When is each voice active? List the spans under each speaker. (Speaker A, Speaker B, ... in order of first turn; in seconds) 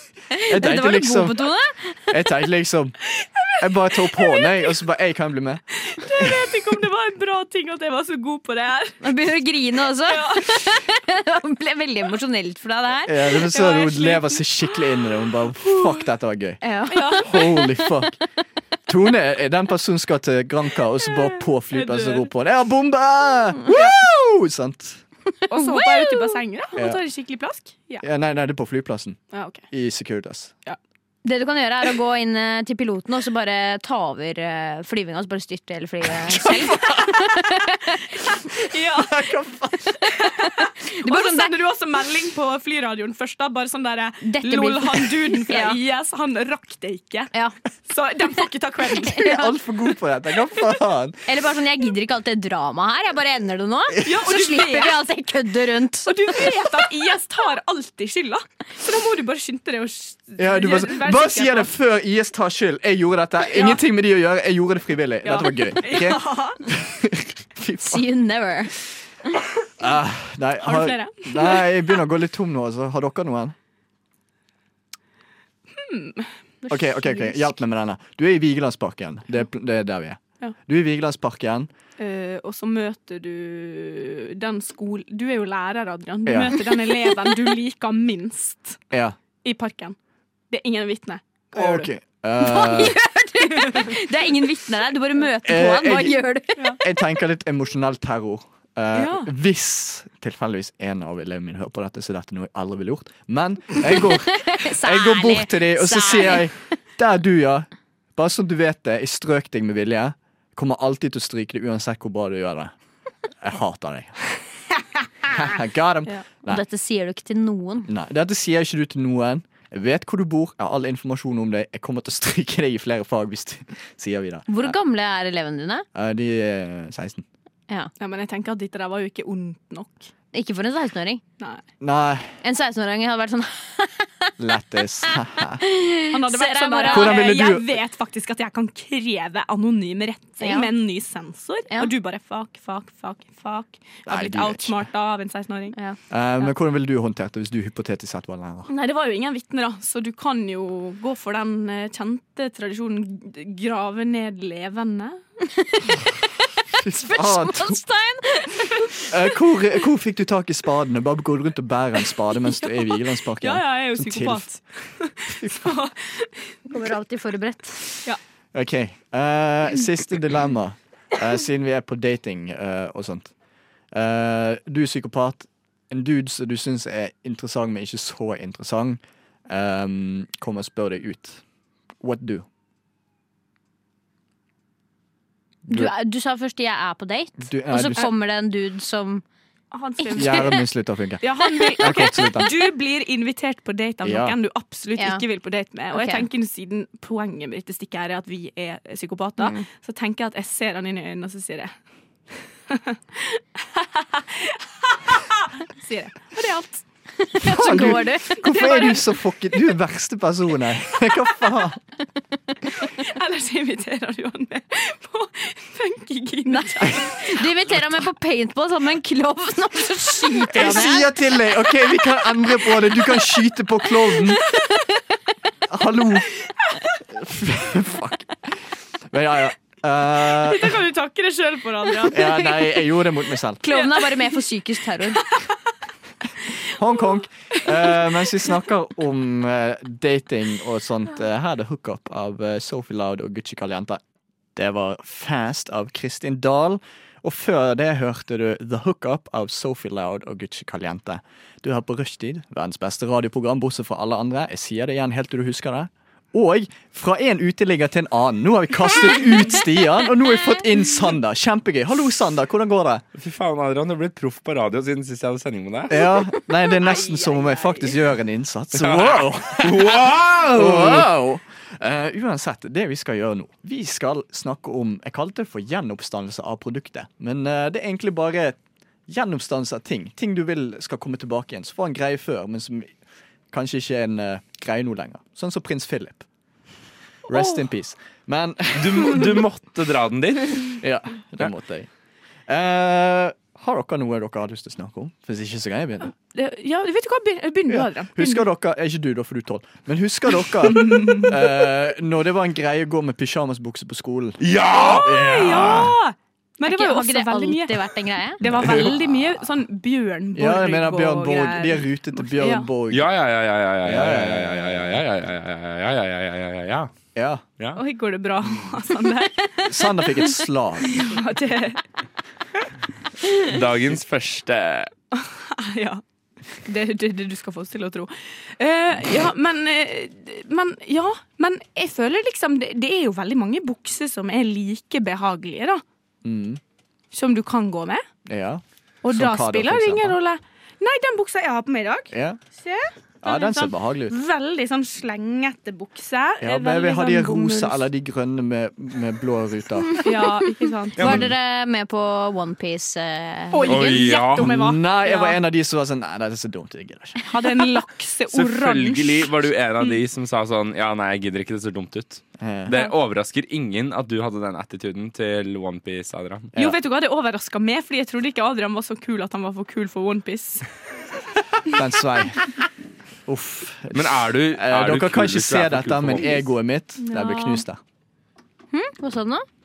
Speaker A: 0.3-2.1, 9.0-13.4, 16.6-17.3, 25.4-26.4, 31.2-38.0, 40.1-41.5, 44.2-45.8, 49.1-49.4, 51.2-56.5, 67.8-68.7, 92.4-96.8, 104.4-106.5, 116.5-117.9, 124.5-125.8, 130.3-131.2, 132.4-134.3, 135.6-137.2, 140.4-140.7, 155.6-156.0, 157.0-159.0, 166.7-168.1, 185.7-189.2, 190.1-190.5, 194.9-195.2, 195.9-196.2, 199.4-199.7, 207.2-208.4, 216.5-221.1, 233.6-235.2, 306.6-308.4, 351.0-354.1, 378.7-379.4
Speaker B: 0.5-1.5, 2.1-3.0, 3.6-6.5, 13.1-16.6, 17.2-18.2, 18.9-25.0, 26.8-27.0, 28.0-29.2, 29.7-30.5, 36.3-37.1, 38.9-40.0, 49.1-51.2, 60.4-68.0, 69.8-73.5, 76.7-81.7, 86.2-86.6, 88.9-89.2, 91.5-93.0, 95.4-96.2, 96.8-112.7, 113.4-114.2, 115.2-116.6, 117.9-124.8, 125.9-127.2, 131.8-132.3, 134.4-135.6, 136.9-137.8, 144.1-144.8, 146.1-148.7, 156.7-157.8, 159.0-164.5, 165.3-165.7, 168.5-173.3, 173.9-181.4, 182.0-182.4, 185.7-185.9, 187.4-188.1, 190.1-192.5, 194.0-194.3, 207.4-211.8, 220.5-224.4, 225.7-226.3, 227.1-228.6, 229.1-230.8, 232.1-233.6, 236.7-244.0, 244.5-263.0, 265.9-282.9, 283.5-286.2, 287.3-289.4, 290.8-291.9, 292.5-296.1, 297.7-305.9, 308.4-309.5, 310.3-313.1, 313.8-315.0, 317.1-317.4, 319.6-321.1, 336.2-336.6, 338.2-340.2, 342.1-342.4, 343.2-344.1, 346.4-350.0, 354.3-357.4, 362.4-362.7, 371.7-372.4, 373.2-377.8
Speaker C: 3.2-4.7, 5.8-9.0, 10.1-10.7, 13.4-15.0, 15.6-16.0, 16.9-17.6, 21.7-22.3, 25.5-28.0, 29.3-29.6, 36.5-37.0, 38.5-39.3, 40.1-47.3, 47.9-49.4, 54.0-55.0, 56.0-61.7, 63.5-63.8, 65.2-66.6, 70.6-72.0, 75.7-76.7, 82.0-88.8, 89.4-90.0, 90.5-91.9, 93.7-93.9, 98.9-99.3, 128.0-130.1, 136.1-145.8, 148.7-155.2, 163.4-166.6, 189.7-190.6, 191.2-201.7, 202.7-206.8, 207.7-209.1, 212.9-217.2, 230.3-232.5, 233.7-234.4, 235.1-235.5, 266.6-267.9, 287.3-287.6, 296.3-298.4, 300.6-301.5, 304.7-307.9, 308.4-312.7, 317.8-320.3, 320.9-321.8, 325.1-326.0, 326.6-335.8, 337.1-338.0, 339.0-347.8, 350.0-351.2, 353.5-355.4, 357.2-360.0, 366.5-370.6, 377.0-377.6
Speaker D: 263.1-265.9, 268.7-271.1, 288.7-290.8, 304.4-305.9, 308.5-308.9, 312.9-316.9, 323.4-324.9, 351.0-351.3, 353.6-354.6, 358.3-366.5, 373.9-376.5